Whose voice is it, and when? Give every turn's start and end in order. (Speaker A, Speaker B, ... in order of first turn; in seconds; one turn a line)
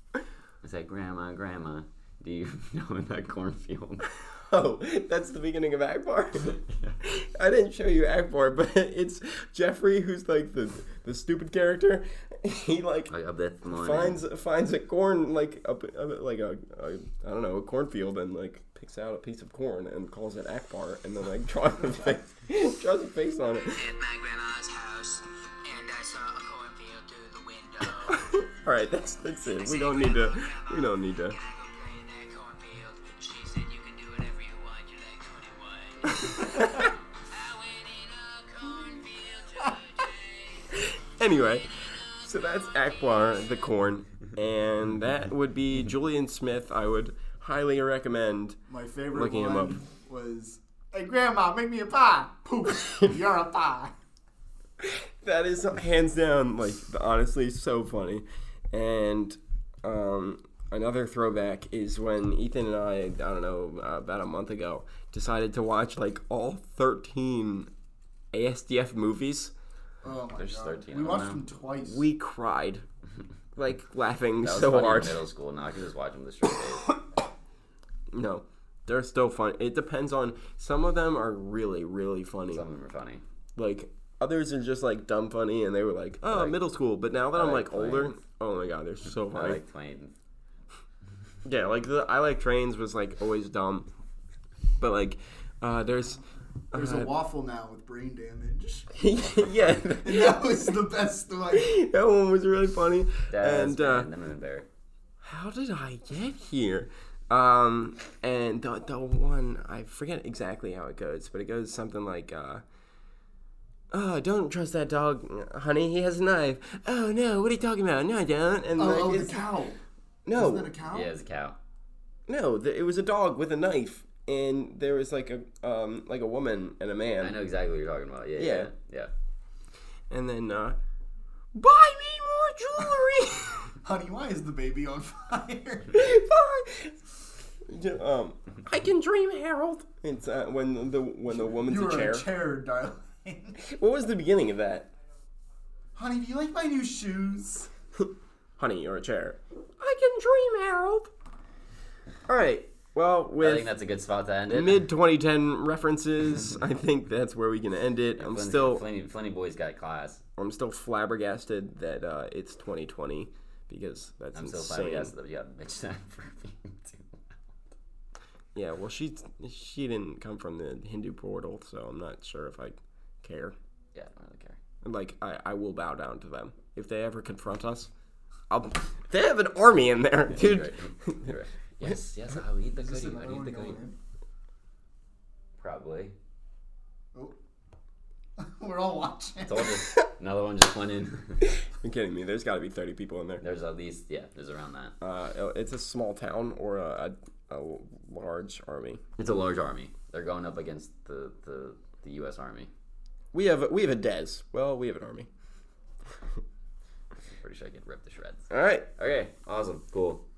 Speaker A: 0.6-4.0
Speaker B: 4.3-13.1
Speaker A: 13.1-14.2
Speaker B: 13.7-23.9
Speaker C: 23.7-28.4
Speaker B: 28.1-31.4
Speaker C: 29.3-40.7
Speaker B: 36.2-36.8
Speaker B: 40.8-48.6
Speaker D: 48.7-53.9
Speaker B: 49.1-49.8
Speaker B: 54.8-67.7
Speaker B: 68.3-69.5
Speaker D: 70.0-72.0
Speaker A: 70.3-71.5
Speaker B: 71.8-72.8
Speaker B: 73.5-75.2
Speaker A: 74.4-77.0
Speaker B: 78.1-82.6
Speaker A: 82.5-83.2
Speaker B: 83.5-89.6
Speaker A: 86.3-86.6
Speaker A: 87.3-88.1
Speaker A: 89.3-90.1
Speaker B: 91.4-93.9
Speaker B: 94.8-96.2
Speaker B: 96.7-97.1
Speaker D: 96.7-98.9
Speaker B: 98.9-100.8
Speaker D: 100.0-101.8
Speaker B: 101.5-104.1
Speaker A: 103.3-104.7
Speaker B: 105.2-112.6
Speaker B: 113.9-119.5
Speaker D: 118.8-119.8
Speaker B: 120.2-120.7
Speaker D: 120.3-121.1
Speaker A: 120.8-121.6
Speaker B: 122.3-127.3
Speaker A: 127.2-129.1
Speaker B: 128.4-128.7
Speaker B: 130.1-130.8
Speaker B: 131.5-133.7
Speaker D: 133.8-136.0
Speaker B: 135.9-137.0
Speaker B: 137.6-142.3
Speaker D: 141.5-143.6
Speaker B: 143.6-144.9
Speaker D: 145.9-147.7
Speaker B: 148.0-151.1
Speaker B: 152.3-153.7
Speaker A: 153.4-154.8
Speaker B: 154.5-158.8
Speaker A: 158.2-160.2
Speaker B: 160.4-165.1
Speaker A: 164.3-167.2
Speaker B: 168.5-173.5
Speaker A: 173.9-174.6
Speaker B: 174.8-177.9
Speaker B: 178.5-181.3
Speaker A: 180.3-183.8
Speaker D: 182.8-184.0
Speaker A: 185.6-186.1
Speaker D: 188.4-189.8
Speaker A: 189.4-191.4
Speaker B: 191.4-193.4
Speaker A: 193.4-194.9
Speaker B: 195.0-199.0
Speaker A: 199.2-202.7
Speaker B: 203.3-205.3
Speaker A: 207.3-210.2
Speaker B: 208.5-208.9